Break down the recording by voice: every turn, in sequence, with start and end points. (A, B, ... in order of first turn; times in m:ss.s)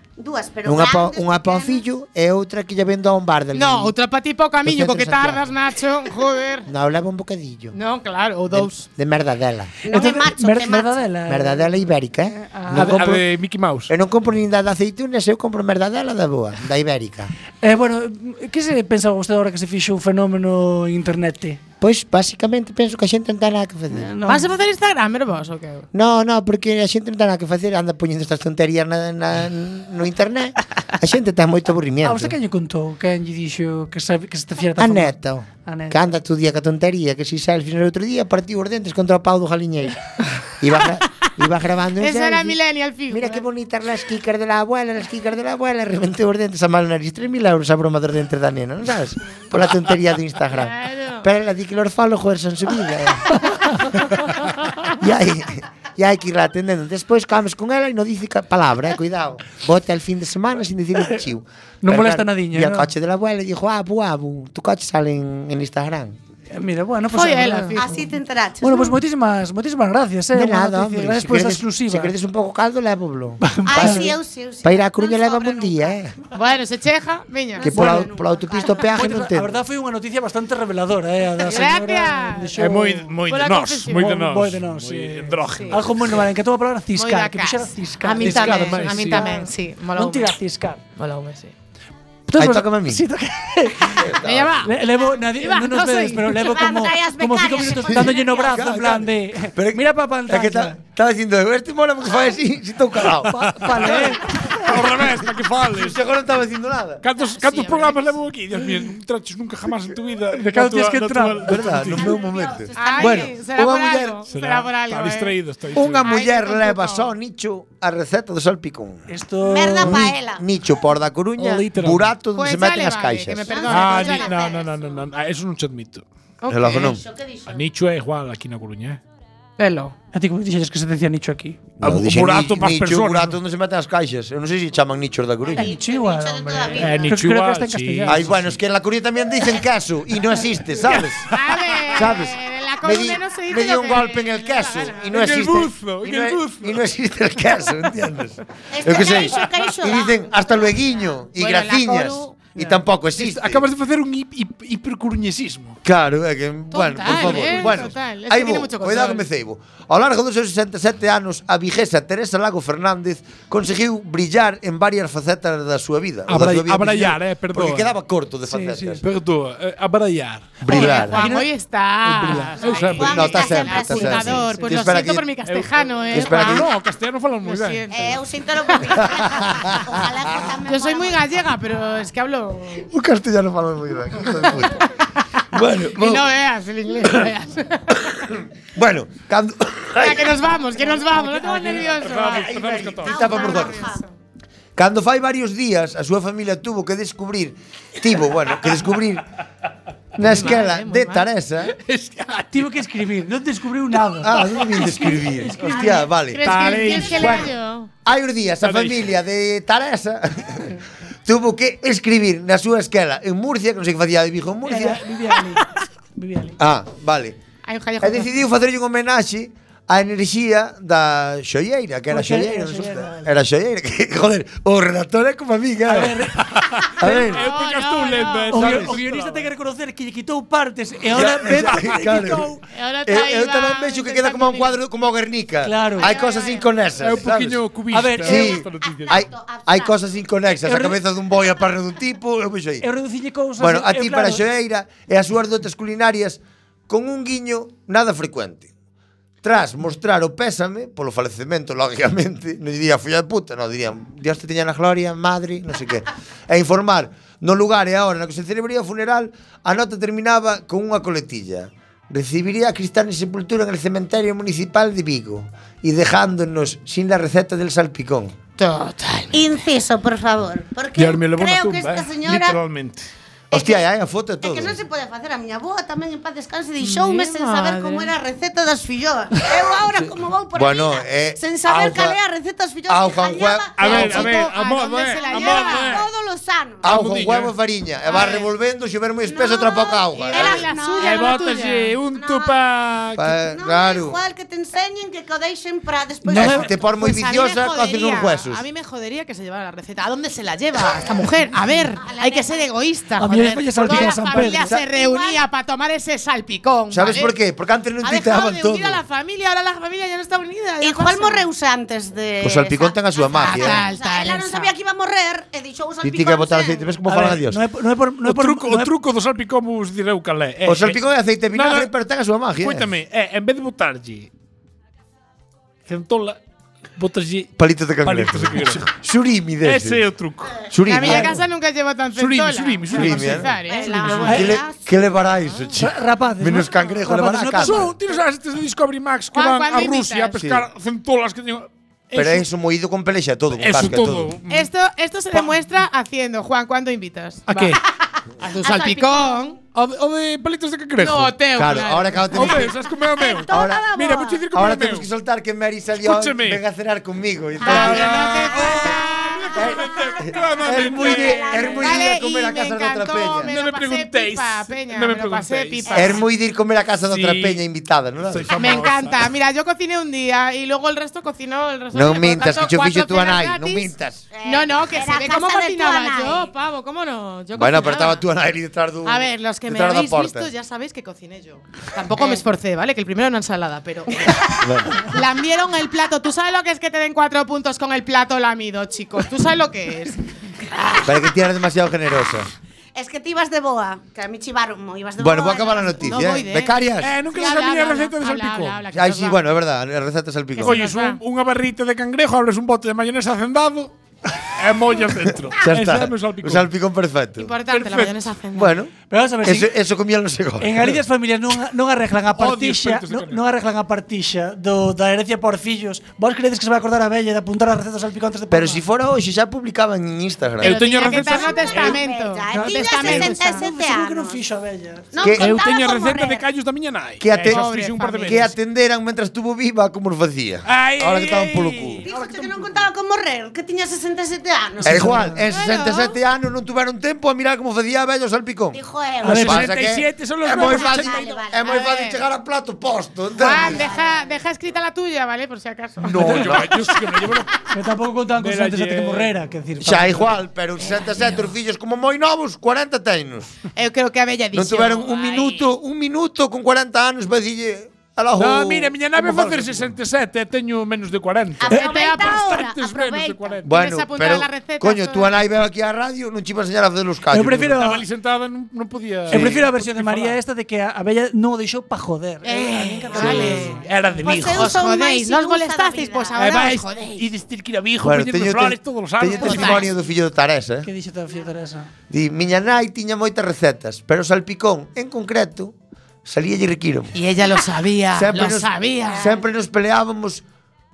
0:00.2-0:01.8 A
0:00.6-0:04.0 B
0:03.5-0:06.7 C
0:04.6-0:05.5 B
0:06.7-0:07.8 B
0:07.7-0:08.9 C
0:08.5-0:09.8 B
0:09.8-0:11.0 A
0:09.9-0:11.8 D
0:11.3-0:13.3 B
0:12.4-0:13.0 D
0:12.7-0:13.9 E
0:13.9-0:17.3 B
0:17.6-0:21.6 D
0:21.8-0:24.1 B
0:23.9-0:24.5 D
0:24.2-0:25.9 C
0:25.9-0:32.4 B
0:32.0-0:36.1 D
0:34.8-0:42.6 B
0:42.0-0:43.4 C
0:43.1-0:54.2 B
0:50.5-0:51.3 C
0:55.0-1:06.2 B
1:01.8-1:02.9 D
1:06.5-1:08.0 D
1:07.1-1:08.1 C
1:07.8-1:09.0 A
1:08.6-1:12.1 D
1:10.3-1:16.2 B
1:13.4-1:14.1 D
1:13.6-1:16.0 A
1:16.3-1:17.8 C
1:17.6-1:18.9 A
1:17.6-1:19.6 B
1:17.7-1:18.1 D
1:18.9-1:23.1 D
1:21.4-1:22.6 C
1:22.6-1:26.2 E
1:23.3-1:24.1 C
1:23.9-1:30.8 D
1:26.9-1:30.4 C
1:28.2-1:29.3 E
1:31.0-1:31.5 C
1:32.3-1:40.8 D
1:32.4-1:33.0 B
1:34.0-1:34.7 B
1:34.2-1:36.5 C
1:36.3-1:38.7 A
1:37.9-1:44.0 B
1:43.2-1:44.6 D
1:43.4-1:46.0 E
1:45.7-1:47.0 B
1:47.0-1:52.1 E
1:47.2-1:48.2 C
1:50.4-1:51.9 D
1:51.5-1:54.2 B
1:52.0-1:53.3 A
1:52.7-1:55.4 C
1:54.3-1:56.1 E
1:55.8-1:59.1 B
1:56.0-1:57.1 C
1:59.1-2:00.1 D
1:59.4-2:00.4 A
1:59.8-2:03.6 B
2:01.4-2:02.1 E
2:02.4-2:04.4 C
2:03.5-2:05.1 A
2:03.7-2:06.0 E
2:06.4-2:07.0 C
2:06.5-2:07.0 B
2:06.7-2:07.6 A
2:07.5-2:09.0 E
2:09.6-2:10.0 C
2:10.1-2:11.6 D
2:11.8-2:15.7 B
2:11.8-2:13.4 E
2:15.5-2:17.2 A
2:15.6-2:18.4 D
2:16.8-2:18.5 E
2:18.1-2:21.3 B
2:20.9-2:21.8 E
2:21.3-2:25.2 C
2:21.9-2:33.7 B
2:25.1-2:26.8 E
2:28.7-2:30.3 A
2:31.4-2:32.5 C
2:33.2-2:35.8 E
2:35.8-2:49.0 B
2:36.7-2:39.3 C
2:37.1-2:37.5 E
2:46.3-2:47.9 E
2:48.5-2:49.0 D
2:49.0-2:51.0 E
2:50.6-2:51.2 B
2:50.7-2:56.7 C
2:51.1-2:51.5 D
2:52.1-2:52.6 D
2:52.6-2:53.2 E
2:52.7-2:54.6 A
2:53.0-2:55.3 B
2:54.4-2:54.7 D
2:55.4-2:57.8 E
2:56.1-2:56.7 B
2:57.4-2:58.2 C
2:57.9-3:01.2 A
2:59.1-3:00.1 B
3:00.6-3:02.9 C
3:02.8-3:04.9 B
3:05.5-3:06.3 B
3:06.0-3:08.0 C
3:08.8-3:11.2 B
3:10.0-3:12.5 C
3:11.4-3:13.4 E
3:12.3-3:13.9 B
3:13.0-3:14.0 A
3:13.2-3:14.1 C
3:14.8-3:19.3 B
3:20.2-3:21.8 B
3:20.2-3:21.3 C
3:21.8-3:22.7 E
3:22.5-3:26.1 D
3:24.2-3:27.5 B
3:25.6-3:26.1 A
3:26.3-3:27.9 C
3:26.4-3:27.4 E
3:26.9-3:27.3 A
3:28.0-3:35.0 B
3:28.6-3:29.1 E
3:34.7-3:36.6 D
3:36.6-3:37.4 B
3:37.6-3:38.3 C
3:38.0-3:46.3 B
3:42.1-3:43.3 D
3:45.9-3:46.4 D
3:46.6-3:49.5 E
3:47.0-3:47.5 B
3:47.0-3:48.7 C
3:48.5-3:52.6 D
3:48.6-3:48.9 B
3:51.1-3:52.5 B
3:52.7-3:54.8 C
3:53.1-3:57.6 B
3:55.6-3:56.1 D
3:56.0-3:56.7 C
3:57.0-3:59.2 E
3:57.9-3:58.5 D
3:58.2-4:02.9 B
3:58.3-3:59.9 A
4:00.7-4:01.0 D
4:02.8-4:04.4 D
4:03.6-4:08.7 B
4:09.4-4:28.4 B
4:28.6-4:29.5 C
4:29.3-4:32.6 A
4:31.0-4:33.1 E
4:33.5-4:33.9 A
4:33.5-4:34.8 B
4:34.4-4:44.3 A
4:36.8-4:38.1 C
4:40.5-4:42.2 B
4:42.9-4:44.4 B
4:43.8-4:46.1 E
4:43.8-4:46.0 C
4:45.3-4:46.8 A
4:46.8-4:50.7 B
4:46.9-4:47.5 E
4:48.1-4:48.4 A
4:48.1-4:48.5 C
4:49.3-4:51.5 A
4:50.3-4:52.0 C
4:51.0-4:53.4 E
4:52.0-4:52.6 A
4:53.2-4:54.2 B
4:53.6-4:56.9 A
4:56.2-4:56.7 D
4:56.4-4:58.6 B
4:56.9-5:07.4 C
5:02.0-5:02.7 A
5:03.2-5:04.7 D
5:03.8-5:05.5 A
5:06.9-5:09.0 B
5:08.0-5:11.5 C
5:10.8-5:16.9 A
5:12.4-5:13.8 B
5:13.4-5:14.7 C
5:16.0-5:17.6 B
5:17.1-5:18.9 D
5:18.2-5:21.9 E
5:20.6-5:22.9 B
5:22.6-5:24.3 E
5:25.9-5:26.4 E
5:27.0-5:28.9 E
5:27.6-5:30.0 B
5:29.6-5:30.5 E
5:30.7-5:31.4 B
5:30.8-5:34.6 C
5:32.2-5:33.5 E
5:32.9-5:33.5 B
5:33.7-5:34.8 A
5:34.2-5:34.5 D
5:34.2-5:37.9 B
5:35.5-5:35.8 C
5:35.8-5:37.9 D
5:37.6-5:42.5 E
5:39.3-5:40.4 C
5:40.4-5:40.6 B
5:42.1-5:44.3 B
5:43.6-5:44.7 E
5:44.5-5:47.8 C
5:47.5-5:47.8 E
5:48.4-5:49.6 C
5:48.6-5:49.5 A
5:49.7-5:51.4 E
5:51.0-5:52.6 C
5:51.6-5:52.8 B
5:52.3-5:55.1 E
5:53.1-5:54.4 A
5:53.5-5:53.9 B
5:54.5-5:58.5 B
5:56.0-5:56.6 E
5:57.6-6:02.1 A
5:57.6-5:59.3 C
5:57.7-6:01.6 E
5:59.6-6:03.5 B
6:01.6-6:06.2 C
6:03.5-6:06.0 E
6:05.8-6:06.2 A
6:05.9-6:08.5 B
6:07.1-6:07.6 E
6:08.2-6:09.3 E
6:08.6-6:13.9 C
6:11.9-6:14.3 B
6:14.3-6:16.5 A
6:14.4-6:18.2 C
6:17.5-6:20.5 B
6:19.0-6:30.2 C
6:22.1-6:22.4 A
6:24.6-6:25.1 B
6:30.7-6:31.2 A
6:31.0-6:32.5 B
6:33.0-6:36.3 A
6:35.2-6:37.2 B
6:36.1-6:36.8 C
6:37.0-6:38.8 E
6:37.3-6:39.4 C
6:38.9-6:40.8 B
6:40.6-6:46.7 E
6:40.6-6:41.2 C
6:45.6-6:47.5 B
6:47.4-6:48.8 C
6:47.7-6:48.2 E
6:48.5-6:51.0 B
6:49.1-6:49.7 D
6:50.6-6:58.8 D
6:52.3-6:53.4 E
6:58.5-7:01.1 B
7:00.6-7:02.0 E
7:00.6-7:03.6 C
7:01.2-7:04.4 A
7:02.5-7:05.1 D
7:05.1-7:06.4 A
7:05.2-7:05.6 B
7:05.3-7:08.6 E
7:07.2-7:07.7 B
7:07.5-7:08.5 C
7:08.3-7:12.1 B
7:10.7-7:12.0 E
7:12.0-7:15.4 A
7:12.1-7:12.6 D
7:14.8-7:18.8 B
7:14.8-7:15.4 D
7:15.5-7:16.1 C
7:18.7-7:19.7 A
7:19.2-7:19.6 D
7:19.3-7:21.3 E
7:19.4-7:23.9 B
7:20.4-7:21.8 A
7:21.6-7:22.2 C
7:23.4-7:26.4 C
7:23.4-7:24.4 A
7:26.1-7:27.5 E
7:26.1-7:26.9 B
7:26.2-7:26.5 D
7:27.7-7:30.3 D
7:28.4-7:29.3 E
7:29.8-7:33.6 B
7:33.8-7:35.6 C
7:34.5-7:39.9 B
7:38.4-7:43.7 E
7:41.6-7:43.7 A
7:41.7-7:42.7 C
7:43.6-7:47.8 B
7:43.7-7:45.4 C
7:47.3-7:48.0 D
7:47.7-7:50.4 E
7:49.3-7:49.6 B
7:49.3-7:53.8 D
7:52.5-7:56.8 A
7:52.5-7:53.8 C
7:53.1-7:54.8 E
7:54.5-7:57.3 C
7:56.4-7:59.9 E
7:58.0-8:00.9 B
7:59.4-7:59.9 C
8:00.8-8:01.9 D
8:02.1-8:05.7 B
8:06.2-8:07.2 B
8:07.1-8:09.3 C
8:08.1-8:10.4 B